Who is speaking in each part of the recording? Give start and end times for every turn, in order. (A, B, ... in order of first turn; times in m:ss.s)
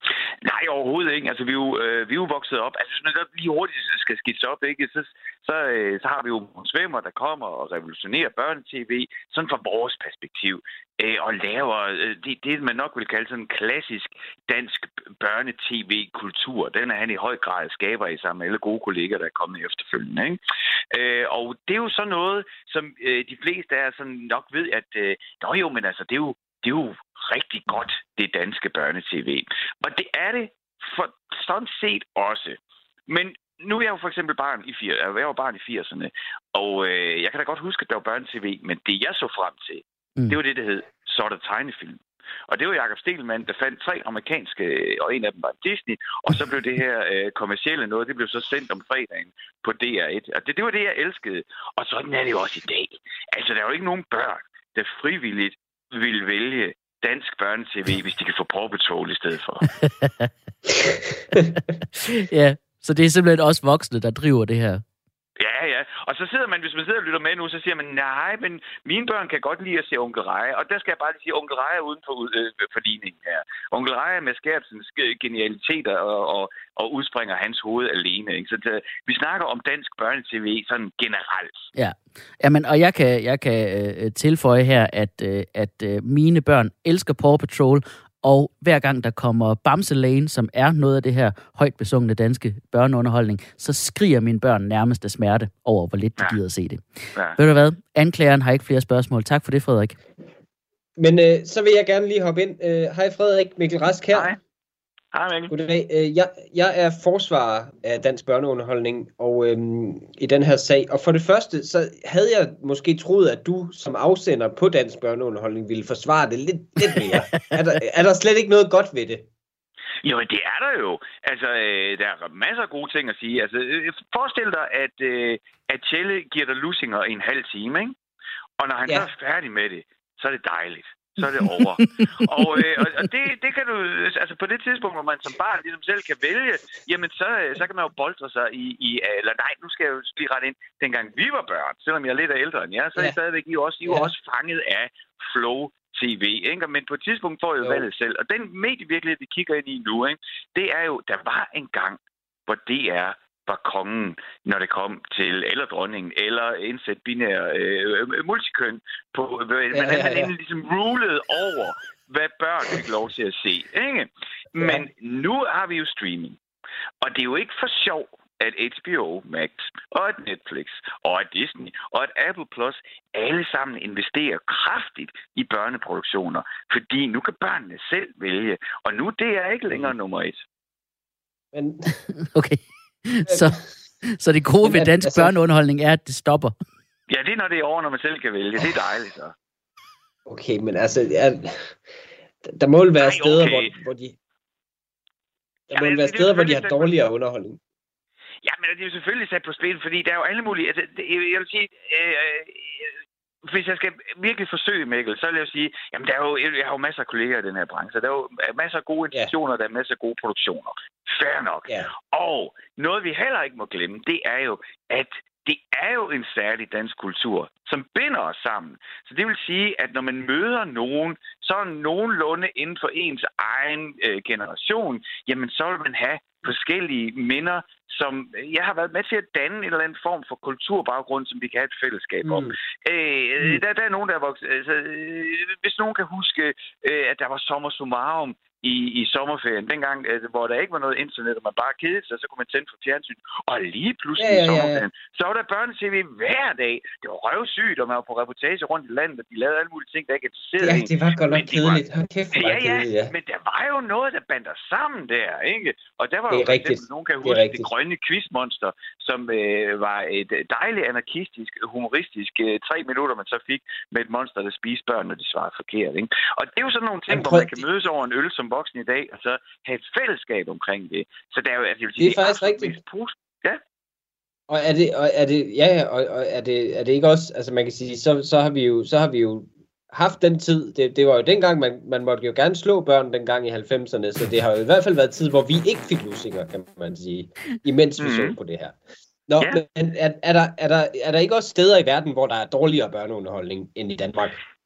0:00.4-0:20.4 A
0:20.9-0:59.7 A
0:59.8-1:00.3 B
1:01.9-1:04.8 B
1:05.4-1:21.7 A
1:21.7-1:36.8 B
1:37.4-1:40.0 B
1:41.0-1:44.3 C
1:44.1-1:44.4 A
1:45.1-1:45.5 A
1:45.5-1:59.2 C
1:57.0-1:57.4 B
2:00.0-2:08.0 A
2:08.6-2:46.4 A
2:11.8-2:12.8 B
2:23.8-2:24.1 C
2:39.7-2:40.3 C
2:44.6-2:44.8 C
2:47.0-3:00.4 A
3:01.5-3:02.0 C
3:02.3-3:06.5 B
3:03.3-3:03.6 C
3:04.6-3:05.3 C
3:07.1-3:09.3 A
3:10.3-3:11.8 C
3:12.4-3:14.2 C
3:13.0-3:13.7 A
3:15.7-3:17.6 C
3:15.7-3:16.9 A
3:18.4-4:11.8 A
3:52.2-3:52.5 C
4:04.2-4:04.8 C
4:10.6-4:13.1 C
4:12.3-4:33.6 A
4:16.3-4:17.7 C
4:27.1-4:27.6 C
4:32.0-4:32.8 C
4:34.5-4:48.8 C
4:48.0-4:48.4 A
4:49.3-4:54.4 C